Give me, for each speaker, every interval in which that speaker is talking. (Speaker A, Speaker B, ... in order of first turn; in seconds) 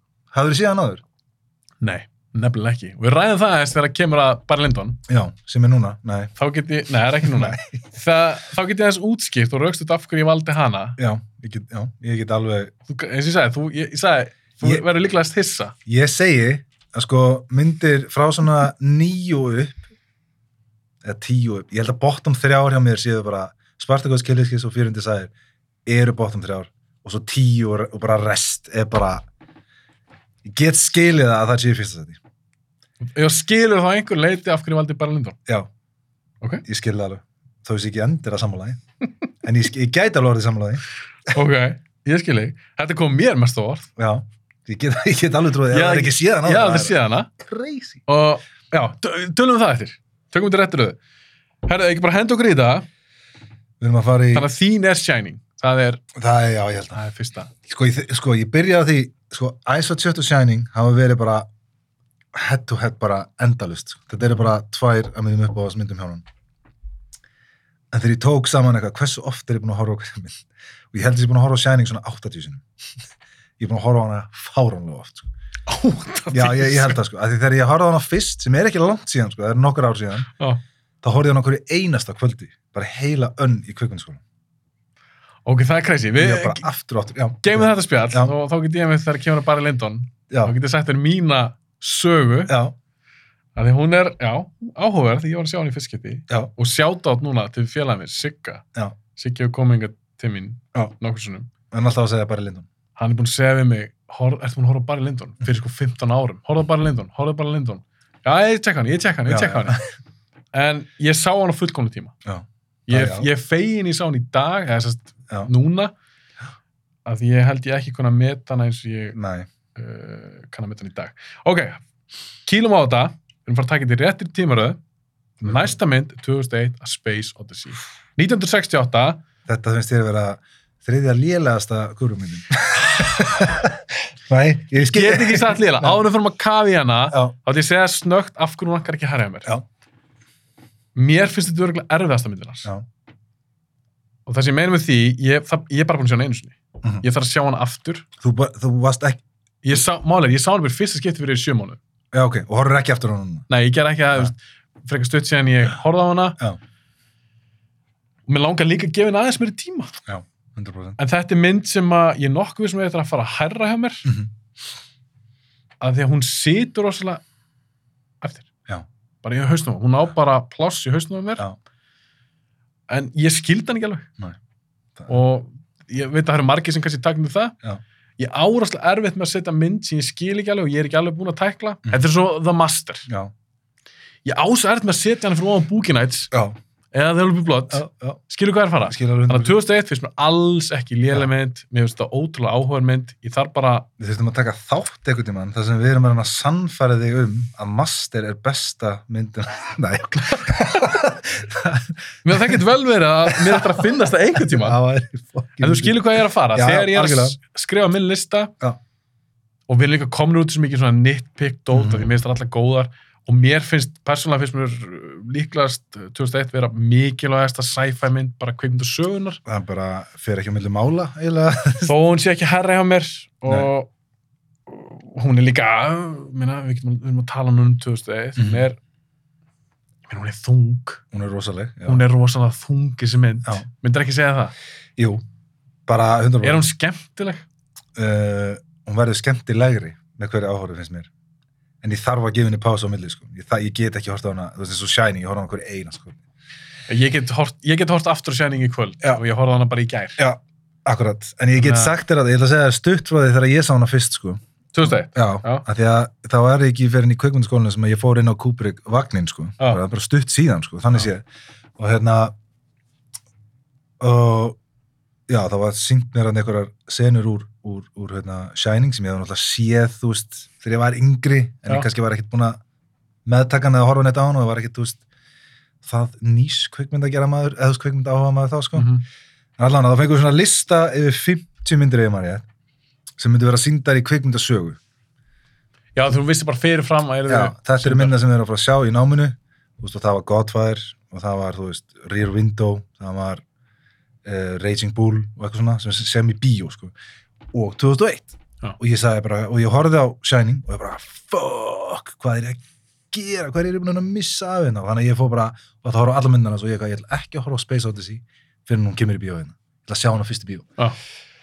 Speaker A: 0.3-1.0, 5.1-6.3, 7.2-7.8, 11.0-12.7, 15.9-19.8, 21.0-25.3, 25.9-29.2, 30.4-32.2, 36.6-38.8, 39.4-40.8, 44.0-48.0, 53.8-54.5, 56.2-57.0, 57.7-61.5, 62.3-66.2, 67.9-72.6, 73.6-75.3, 76.3-80.3, 81.0-84.2, 86.2-88.3, 92.5-92.7, 101.7-102.7, 109.3-109.8, 112.2-113.3, 119.1-119.5, 125.5-125.7, 129.5-136.0, 148.2-149.2, 152.1-153.5, 160.1-161.0, 187.7-188.2, 188.8-189.6, 194.0-202.6, 203.3-203.8, 204.4-207.4, 211.7-212.1, 219.5-221.9, 228.4-228.7, 231.1-232.0, 235.0-235.2, 235.9-236.7, 238.0-241.1, 241.8-246.2, 250.2-261.2, 261.8-262.3, 264.0-264.6, 265.3-272.6, 273.3-275.0, 275.8-278.9, 279.6-282.4, 283.2-284.8, 287.3-293.4, 294.2-296.9, 297.5-310.7
Speaker B: 1.8-5.0, 6.4-11.0, 12.9-15.7, 33.1-35.4, 41.3-43.9, 45.7-47.3, 48.1-51.0, 51.7-52.9, 54.3-56.0, 56.9-57.5, 75.7-77.0, 85.5-86.7, 87.4-92.6, 93.5-98.6, 99.2-101.5, 103.0-109.8, 110.5-112.1, 112.9-115.9, 117.0-119.2, 119.8-121.8, 122.5-124.8, 125.4-129.2, 134.9-139.5, 140.9-142.7, 144.3-148.1, 149.6-151.8, 153.5-156.4, 158.3-159.9, 161.0-164.1, 165.8-167.2, 168.2-168.5, 169.2-171.5, 172.9-174.1, 175.1-177.6, 178.2-183.1, 184.2-186.3, 186.9-193.9, 202.2-204.8, 205.6-208.5, 209.7-219.4, 221.9-223.9, 224.7-228.8, 230.1-231.0, 231.8-234.5, 236.4-237.4, 246.9-250.2, 251.6-252.0, 254.7-255.7, 278.8-279.0, 285.9-288.2